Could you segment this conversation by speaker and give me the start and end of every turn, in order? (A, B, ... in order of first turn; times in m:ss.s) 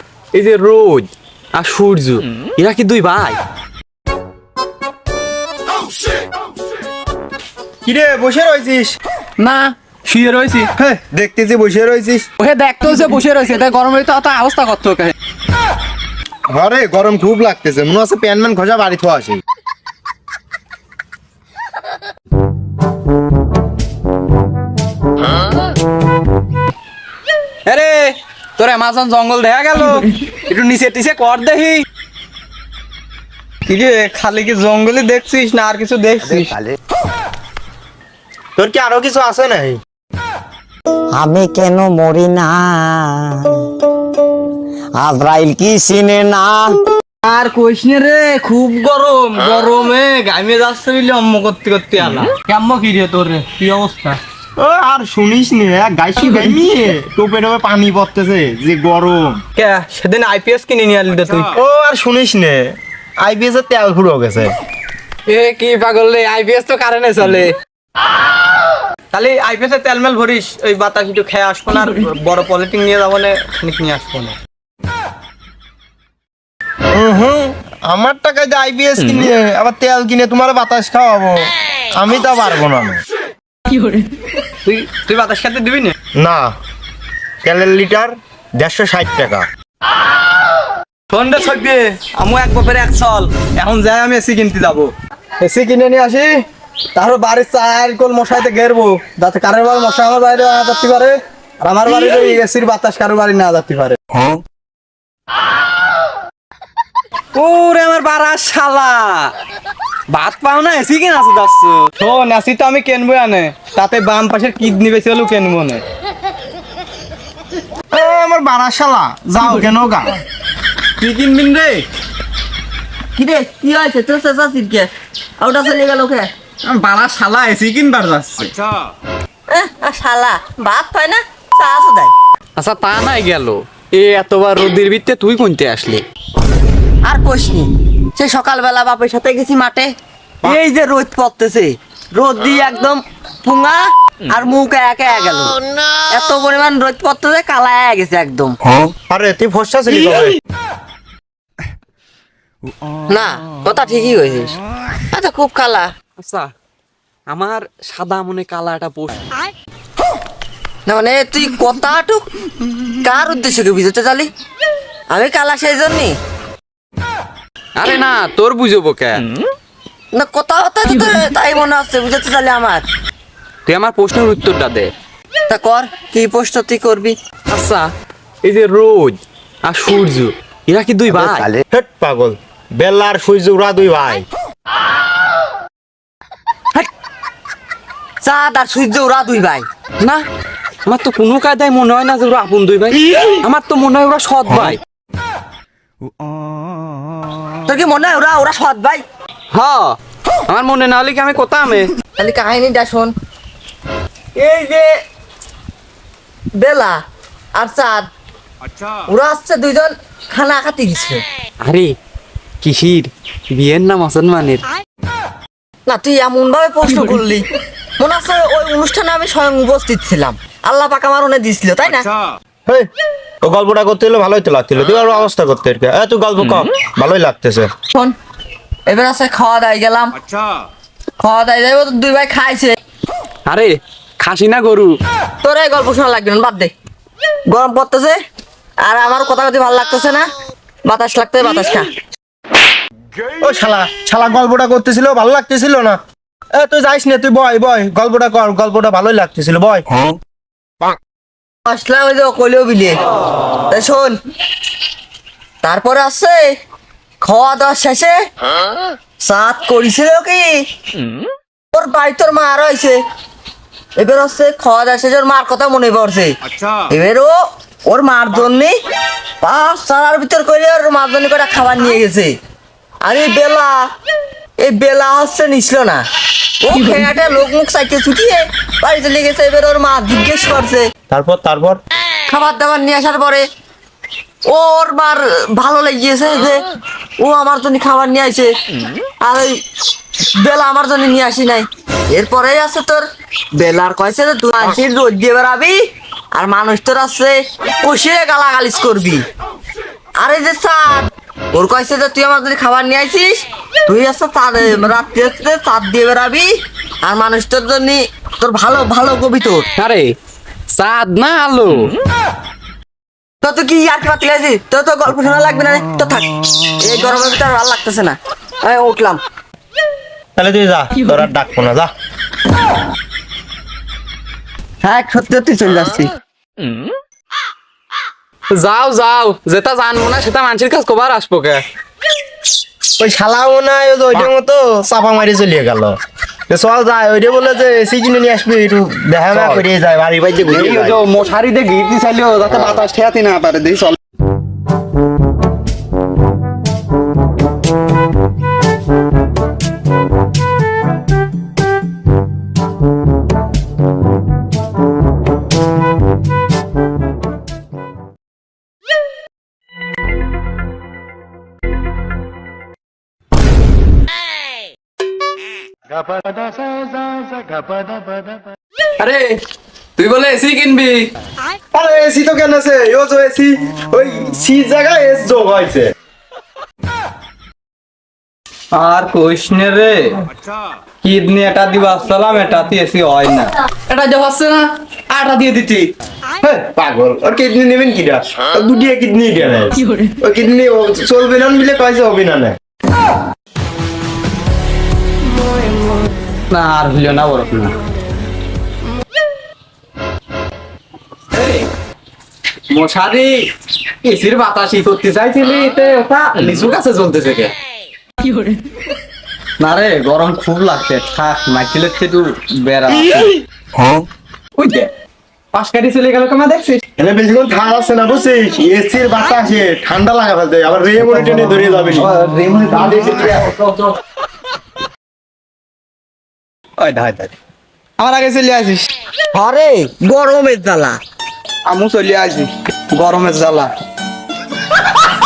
0:00.3-0:03.4 A
0:07.8-0:09.0 B
0:09.4-0:10.7 A
0:10.8-0:12.3 B
0:12.4-0:15.1 A
0:16.5-0:19.4 B
0:27.7-0:31.8 A
0:33.7-0:36.6 C
0:38.6-0:39.8 B
0:41.2-0:42.5 D
0:45.0-0:46.7 D
0:47.6-0:54.2 C
0:54.6-0:59.4 B
0:59.6-1:01.5 C
1:01.6-1:04.6 B
1:05.3-1:07.5 A
1:09.1-1:14.4 C
1:16.9-1:23.0 B
1:24.6-1:25.9 C
1:26.2-1:26.6 B
1:27.4-1:29.5 B
1:31.1-1:36.4 C
1:37.0-1:44.0 C
1:47.4-1:49.3 A
1:50.1-1:51.9 A
1:52.0-1:55.8 C
1:57.9-2:00.1 B
2:01.0-2:01.8 A
2:03.2-2:04.9 E
2:05.4-2:06.3 E
2:06.6-2:08.5 A
2:09.5-2:12.1 E
2:12.6-2:16.0 A
2:17.0-2:19.9 E
2:20.4-2:25.6 E
2:26.1-2:28.6 E
2:29.1-2:30.4 B
2:33.1-2:34.5 E
2:35.1-2:35.9 E
2:36.2-2:36.5 A
2:37.3-2:39.2 A
2:40.9-2:42.3 E
2:43.0-2:44.3 E
2:45.1-2:46.2 E
2:47.8-2:49.2 A
2:50.1-2:52.9 E
2:53.7-2:54.9 A
2:55.5-2:57.2 E
2:57.5-2:57.9 A
2:58.4-3:01.5 A
3:01.7-3:04.3 B
3:08.2-3:09.7 E
3:10.0-3:10.2 A
3:10.9-3:14.8 A
3:17.7-3:19.0 E
3:19.5-3:20.0 A
3:20.5-3:21.9 A
3:22.2-3:23.1 E
3:24.4-3:24.9 E
3:26.6-3:27.0 E
3:27.6-3:28.1 E
3:29.1-3:31.2 E
3:31.6-3:31.9 A
3:32.6-3:34.6 A
3:35.9-3:37.5 E
3:38.0-3:42.1 E
3:43.4-3:47.7 B
3:46.4-3:46.7 A
3:48.9-3:50.2 E
3:51.2-3:52.8 E
3:53.5-3:55.0 A
3:55.4-3:56.7 E
3:57.5-3:58.2 E
3:58.8-4:00.3 E
4:00.9-4:01.9 E
4:03.4-4:06.0 B
4:06.5-4:09.9 B
4:11.6-4:13.0 E
4:13.7-4:14.2 E
4:15.6-4:16.5 E
4:17.2-4:18.2 E
4:19.2-4:20.6 E
4:21.7-4:23.0 E
4:24.0-4:26.4 E
4:26.9-4:27.3 E
4:27.9-4:28.8 E
4:29.4-4:32.4 E
4:33.0-4:33.9 E
4:34.6-4:36.0 E
4:36.6-4:40.9 E
4:41.1-4:41.8 B
4:42.3-4:43.5 E
4:44.5-4:46.6 E
4:47.2-4:48.5 E
4:49.2-4:49.6 E
4:50.4-4:53.0 E
4:53.6-4:55.8 E
4:56.3-4:59.2 E
5:00.2-5:06.5 E
5:07.0-5:09.7 E
5:09.8-5:10.2 A
5:10.7-5:11.9 A
5:13.4-5:19.2 E
5:20.4-5:21.9 B
5:24.8-5:26.1 E
5:28.5-5:31.6 A
5:33.0-5:36.0 B
5:36.5-5:41.0 B
5:40.4-5:44.0 C
6:06.0-6:08.1 B
6:09.0-6:09.4 A
6:10.0-6:11.1 A
6:11.7-6:15.9 B
6:18.8-6:20.2 C
6:21.0-6:23.5 C
6:23.9-6:25.9 A
6:26.4-6:32.6 B
6:36.5-6:37.7 A
6:41.4-6:41.6 A
6:42.7-6:43.4 A
6:44.0-6:47.5 A
6:49.7-6:53.3 A
6:49.7-6:52.3 C
6:54.6-6:54.9 A
6:55.5-6:56.8 A
6:57.0-7:02.1 B
7:02.0-7:03.5 C
7:03.0-7:03.4 B
7:06.8-7:07.3 C
7:08.0-7:08.9 C
7:09.3-7:11.0 E
7:11.7-7:13.7 C